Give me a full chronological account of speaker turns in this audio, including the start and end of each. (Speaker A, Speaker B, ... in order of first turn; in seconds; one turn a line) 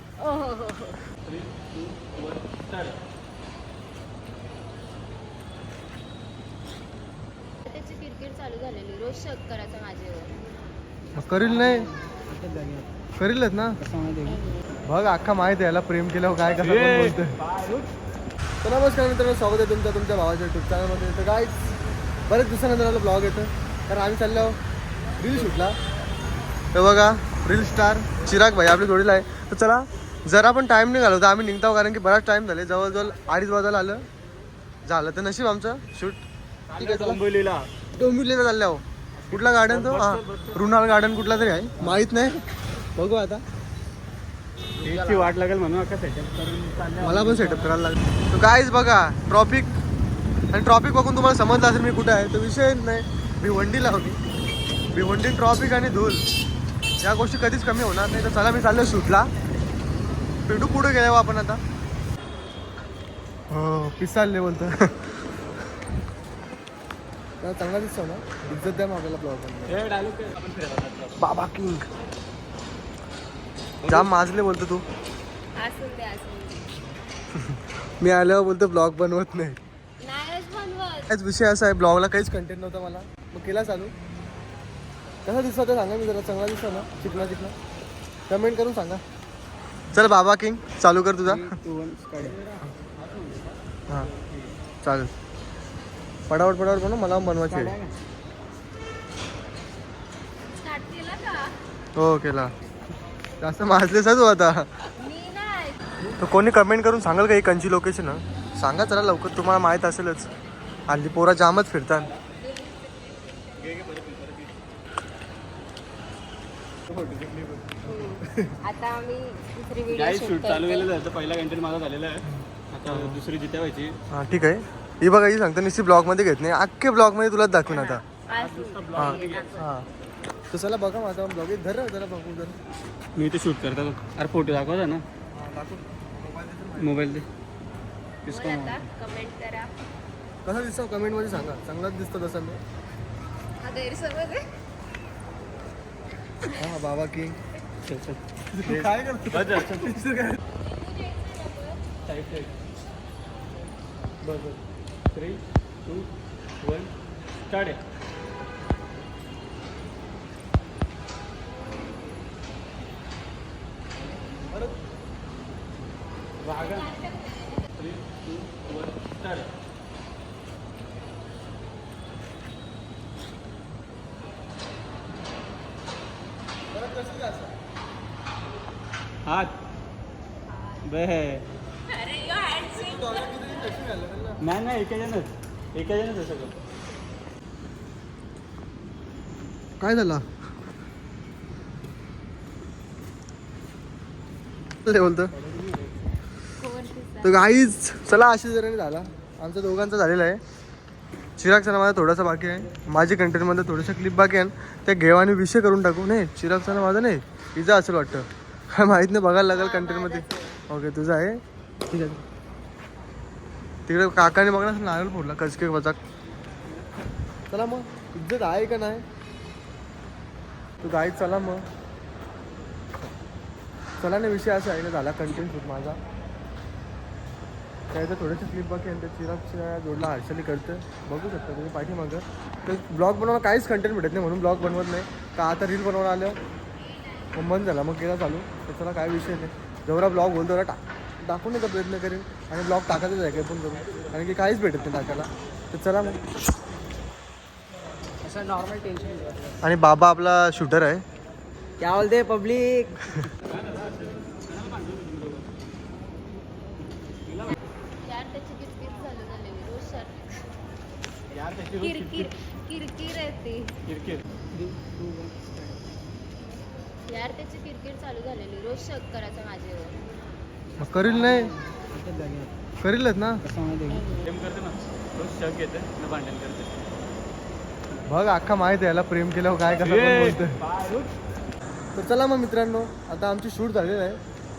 Speaker A: 0.2-1.0
Speaker B: 1.2-3.0
Speaker A: 7.7-10.3
Speaker C: 11.1-11.9
Speaker D: 11.2-12.9
Speaker C: 13.2-13.8
Speaker D: 13.8-14.5
Speaker C: 14.8-17.4
Speaker B: 16.4-17.9
Speaker C: 18.6-21.7
Speaker C: 22.3-24.6
Speaker C: 25.2-25.8
Speaker C: 26.7-34.0
Speaker C: 34.8-36.2
Speaker B: 36.7-37.7
Speaker C: 36.8-37.2
Speaker C: 38.0-42.4
Speaker B: 39.2-40.7
Speaker C: 43.0-43.4
Speaker D: 44.8-45.4
Speaker B: 44.8-47.8
Speaker C: 47.0-49.7
Speaker C: 50.5-54.2
Speaker C: 54.9-56.2
Speaker C: 57.0-59.3
Speaker C: 60.5-61.6
Speaker C: 63.5-65.0
Speaker C: 67.4-69.8
Speaker B: 69.7-71.2
Speaker C: 71.2-71.9
Speaker C: 73.9-74.8
Speaker A: 75.5-76.7
Speaker C: 77.3-79.6
Speaker A: 80.0-81.1
Speaker C: 81.1-83.9
Speaker C: 85.2-87.5
Speaker C: 88.3-89.0
Speaker C: 89.9-91.5
Speaker D: 91.2-92.4
Speaker B: 92.2-93.5
Speaker B: 94.1-94.5
Speaker C: 94.8-95.1
Speaker C: 96.3-97.7
Speaker D: 97.4-97.9
Speaker A: 100.6-101.5
Speaker C: 102.0-102.5
Speaker C: 103.4-104.8
Speaker A: 105.0-105.8
Speaker C: 106.2-110.3
Speaker C: 110.9-112.1
Speaker B: 113.5-114.5
Speaker B: 116.9-117.8
Speaker A: 117.8-120.9
Speaker C: 118.2-118.5
Speaker B: 119.9-124.0
Speaker C: 122.2-123.2
Speaker C: 124.1-128.0
Speaker A: 127.8-129.7
Speaker B: 128.3-129.6
Speaker C: 129.0-129.8
Speaker C: 130.5-132.6
Speaker B: 133.2-135.0
Speaker C: 135.3-137.0
Speaker B: 136.8-137.2
Speaker A: 138.3-139.7
Speaker B: 138.3-138.8
Speaker C: 140.4-142.6
Speaker A: 143.6-144.4
Speaker C: 146.5-147.4
Speaker B: 147.9-149.9
Speaker C: 148.5-150.4
Speaker A: 150.7-151.7
Speaker B: 152.0-152.6
Speaker B: 154.3-154.5
Speaker B: 155.1-156.1
Speaker B: 156.6-156.9
Speaker B: 157.5-157.8
Speaker C: 164.5-164.8
Speaker B: 166.4-169.5
Speaker C: 176.7-177.5
Speaker B: 179.2-179.5
Speaker B: 180.8-181.5
Speaker A: 182.0-183.1
Speaker C: 182.6-184.4
Speaker B: 184.4-186.6
Speaker C: 189.8-190.2
Speaker C: 194.8-195.3
Speaker D: 195.4-195.9
Speaker A: 196.6-197.6
Speaker C: 197.2-200.4
Speaker C: 201.4-212.2
Speaker A: 209.5-210.6
Speaker C: 213.9-216.0
Speaker C: 217.5-219.0
Speaker C: 220.8-221.6
Speaker C: 224.0-226.0
Speaker C: 227.9-236.4
Speaker C: 237.3-246.2
Speaker D: 248.2-249.5
Speaker C: 249.6-251.0
Speaker D: 251.8-253.3
Speaker B: 253.5-255.4
Speaker B: 257.3-257.5
Speaker A: 258.0-260.5
Speaker B: 261.3-262.3
Speaker A: 261.8-263.7
Speaker B: 263.8-264.2
Speaker D: 264.5-265.8
Speaker A: 267.1-269.9
Speaker C: 270.8-271.5
Speaker D: 270.8-272.5
Speaker C: 272.8-273.4
Speaker D: 273.4-274.2
Speaker A: 273.9-274.3
Speaker B: 274.2-276.8
Speaker C: 278.1-280.6
Speaker B: 279.7-281.1
Speaker C: 281.9-284.2